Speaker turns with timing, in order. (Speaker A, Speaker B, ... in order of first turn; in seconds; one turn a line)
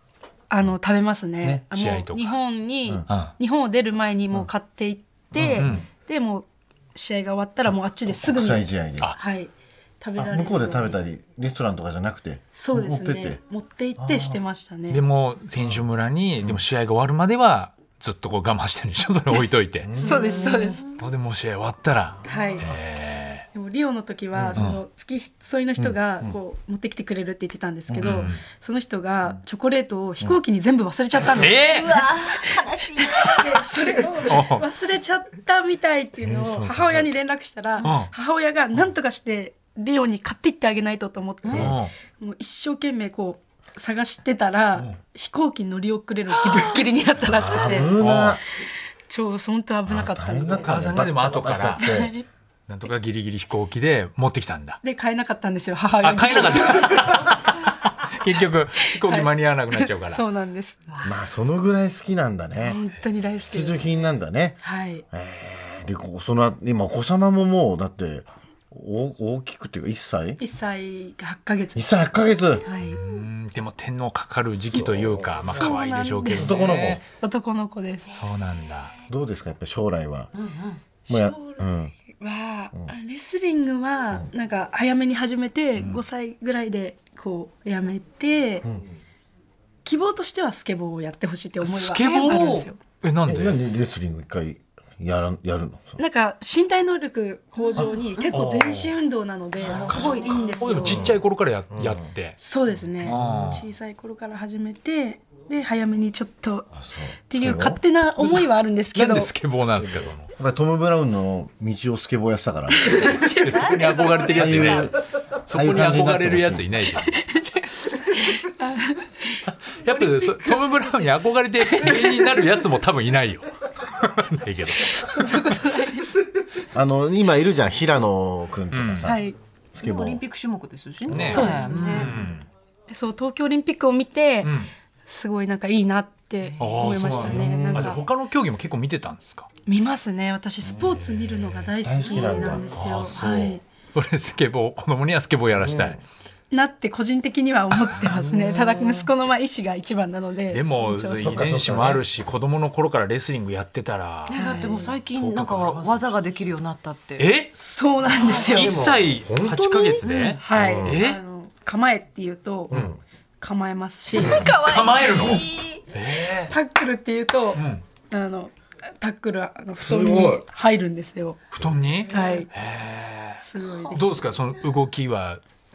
Speaker A: 0.5-11.0
Speaker B: 1.7-2.4
Speaker B: 3.1-3.3
Speaker C: 5.3-5.8
Speaker B: 5.6-5.9
Speaker C: 8.2-9.2
Speaker C: 10.2-13.4
Speaker A: 12.5-15.0
Speaker C: 14.0-14.4
Speaker B: 14.9-20.0
Speaker C: 19.8-20.4
Speaker A: 20.0-21.0
Speaker D: 20.0-20.9
Speaker B: 21.0-23.5
Speaker A: 22.2-22.7
Speaker A: 23.5-48.0
Speaker C: 24.4-24.7
Speaker C: 25.8-26.3
Speaker B: 28.0-28.4
Speaker B: 31.4-32.1
Speaker D: 31.6-34.2
Speaker B: 34.3-34.6
Speaker C: 36.2-37.0
Speaker B: 37.8-38.1
Speaker B: 41.5-41.9
Speaker B: 47.3-48.4
Speaker C: 47.4-48.4
Speaker A: 49.1-50.8
Speaker C: 49.9-52.1
Speaker B: 50.6-52.1
Speaker A: 51.8-52.3
Speaker B: 52.7-54.8
Speaker A: 54.8-57.3
Speaker B: 56.0-60.2
Speaker A: 58.8-60.9
Speaker C: 61.0-62.8
Speaker A: 62.6-63.9
Speaker C: 63.5-64.6
Speaker A: 64.6-65.0
Speaker C: 65.1-70.4
Speaker A: 70.4-71.8
Speaker C: 71.8-72.7
Speaker A: 72.6-73.0
Speaker B: 72.9-77.0
Speaker C: 74.7-75.5
Speaker A: 75.5-78.2
Speaker C: 76.3-77.0
Speaker B: 78.1-79.0
Speaker C: 79.1-80.3
Speaker D: 80.3-80.8
Speaker A: 81.1-88.7
Speaker C: 81.1-81.9
Speaker A: 89.8-92.8
Speaker B: 91.6-93.6
Speaker D: 92.0-92.7
Speaker C: 93.3-96.0
Speaker A: 96.0-101.1
Speaker D: 97.7-98.3
Speaker C: 97.8-98.5
Speaker B: 98.3-98.9
Speaker D: 99.6-101.0
Speaker C: 99.7-101.2
Speaker B: 100.6-102.4
Speaker C: 101.7-102.1
Speaker A: 102.4-106.7
Speaker B: 103.0-103.7
Speaker C: 103.1-103.5
Speaker C: 106.7-107.8
Speaker A: 107.3-109.3
Speaker B: 108.9-110.3
Speaker C: 110.3-113.3
Speaker A: 112.8-113.8
Speaker B: 113.0-117.1
Speaker D: 113.4-114.9
Speaker C: 114.3-116.7
Speaker A: 117.0-120.8
Speaker B: 119.7-125.5
Speaker A: 121.7-122.3
Speaker A: 124.9-126.2
Speaker C: 126.7-129.2
Speaker B: 128.7-129.1
Speaker A: 129.0-129.4
Speaker C: 129.8-130.2
Speaker D: 129.8-132.3
Speaker B: 131.1-132.4
Speaker C: 131.1-131.5
Speaker A: 131.2-132.2
Speaker A: 132.9-134.6
Speaker B: 134.4-134.7
Speaker A: 135.1-138.0
Speaker B: 136.6-139.5
Speaker C: 137.2-138.0
Speaker A: 139.7-143.6
Speaker C: 140.7-141.0
Speaker B: 140.9-141.7
Speaker C: 141.8-142.7
Speaker B: 142.7-146.0
Speaker C: 145.6-146.0
Speaker A: 146.5-151.9
Speaker B: 150.5-154.6
Speaker C: 151.2-152.1
Speaker D: 154.3-157.3
Speaker A: 154.3-154.9
Speaker B: 155.1-156.2
Speaker B: 157.2-157.5
Speaker A: 157.6-158.8
Speaker D: 158.1-158.9
Speaker B: 158.4-161.2
Speaker C: 158.5-159.9
Speaker D: 159.7-160.4
Speaker A: 160.4-162.8
Speaker C: 160.6-161.0
Speaker C: 162.7-163.0
Speaker A: 163.4-164.5
Speaker D: 164.2-165.8
Speaker B: 164.3-166.5
Speaker A: 166.5-171.4
Speaker B: 167.6-167.8
Speaker C: 169.8-170.4
Speaker B: 171.5-175.4
Speaker A: 172.1-172.5
Speaker A: 173.4-174.1